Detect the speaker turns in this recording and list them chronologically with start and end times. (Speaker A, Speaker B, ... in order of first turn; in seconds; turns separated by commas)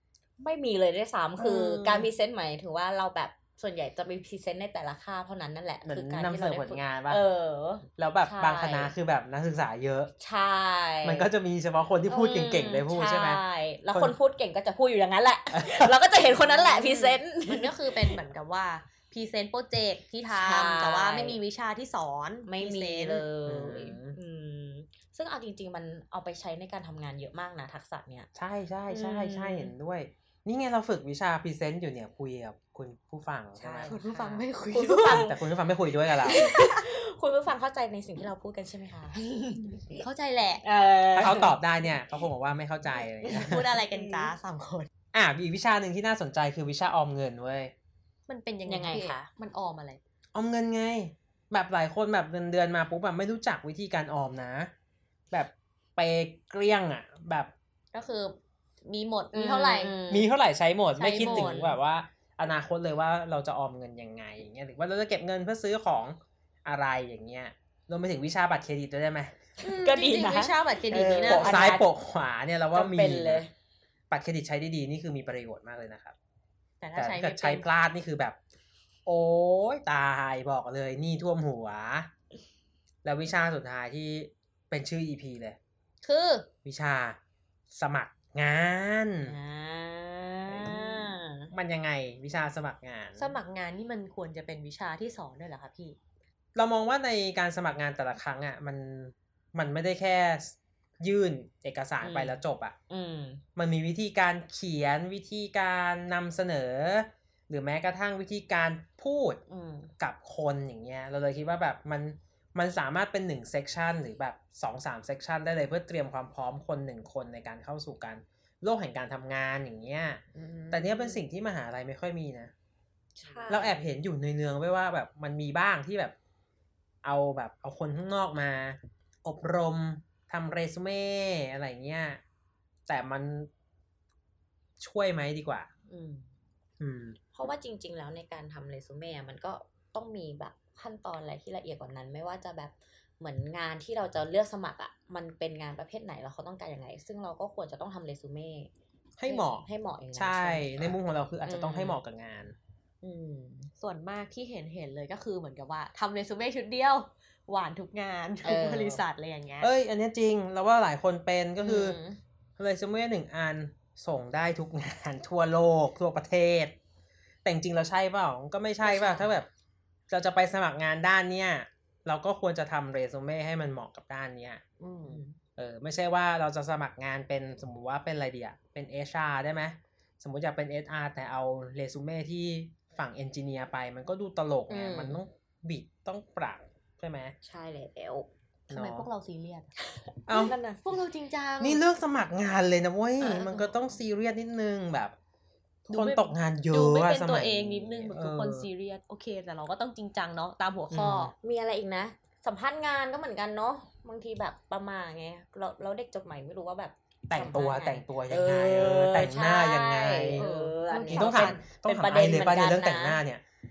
Speaker A: 0.4-8.9, Speaker B: 1.4-2.1, Speaker B: 5.8-7.2, Speaker B: 8.0-10.1, Speaker A: 10.2-11.3, Speaker B: 11.0-14.2, Speaker A: 12.1-18.2, Speaker B: 15.5-16.0, Speaker C: 16.2-23.3, Speaker A: 20.3-21.4, Speaker A: 22.4-28.3, Speaker B: 23.4-24.2, Speaker B: 28.4-33.9, Speaker A: 28.9-29.7, Speaker A: 33.5-35.3, Speaker C: 33.9-35.3, Speaker B: 35.1-36.4, Speaker A: 36.2-40.0, Speaker C: 36.3-36.8, Speaker C: 39.6-40.6, Speaker A: 40.6-41.5, Speaker B: 41.1-43.8, Speaker A: 43.1-44.3, Speaker C: 43.2-44.9, Speaker B: 45.1-47.7, Speaker C: 48.3-50.0, Speaker A: 48.6-49.3, Speaker B: 50.3-54.7, Speaker B: 55.3-57.5, Speaker C: 57.9-60.0, Speaker A: 59.3-60.3, Speaker B: 60.1-69.3, Speaker C: 60.9-61.7, Speaker A: 61.2-61.8, Speaker A: 69.6-71.8, Speaker C: 69.6-71.8, Speaker B: 71.2-73.4, Speaker A: 72.7-73.5, Speaker B: 74.1-76.1, Speaker C: 76.8-77.7, Speaker B: 76.9-78.4, Speaker B: 79.0-82.1, Speaker B: 83.0-85.6, Speaker C: 86.0-86.5, Speaker B: 86.6-87.2, Speaker B: 87.7-89.3, Speaker A: 89.2-91.5, Speaker B: 90.5-93.3, Speaker C: 93.2-96.0, Speaker B: 96.5-102.8, Speaker A: 102.0-103.4, Speaker B: 103.5-109.4, Speaker A: 109.5-109.9, Speaker B: 110.0-122.5, Speaker C: 120.3-121.2, Speaker A: 123.2-123.8, Speaker C: 123.2-123.6, Speaker B: 123.5-126.1, Speaker B: 127.0-132.2, Speaker B: 132.9-133.5, Speaker B: 134.8-135.7, Speaker A: 135.9-136.2, Speaker B: 136.8-137.2, Speaker A: 137.3-148.7, Speaker B: 149.2-152.5, Speaker A: 149.5-151.0, Speaker C: 151.4-152.0, Speaker A: 153.0-153.7, Speaker C: 153.8-159.7, Speaker A: 158.4-159.0, Speaker B: 159.6-162.0, Speaker A: 161.6-162.2, Speaker B: 162.6-166.8, Speaker B: 167.4-169.5, Speaker A: 168.9-169.3, Speaker B: 170.1-174.6, Speaker C: 174.8-175.2, Speaker A: 175.1-175.4, Speaker B: 175.6-187.3, Speaker A: 184.7-185.2, Speaker A: 187.4-188.3, Speaker C: 188.7-189.7, Speaker B: 188.7-189.1, Speaker B: 190.3-190.6, Speaker C: 190.3-191.8, Speaker A: 190.3-191.0, Speaker B: 191.6-195.1, Speaker C: 193.2-193.9, Speaker B: 195.9-198.7, Speaker C: 195.9-201.3, Speaker B: 200.9-201.3, Speaker A: 201.3-213.2, Speaker B: 207.3-210.5, Speaker C: 210.3-211.6, Speaker B: 211.1-213.4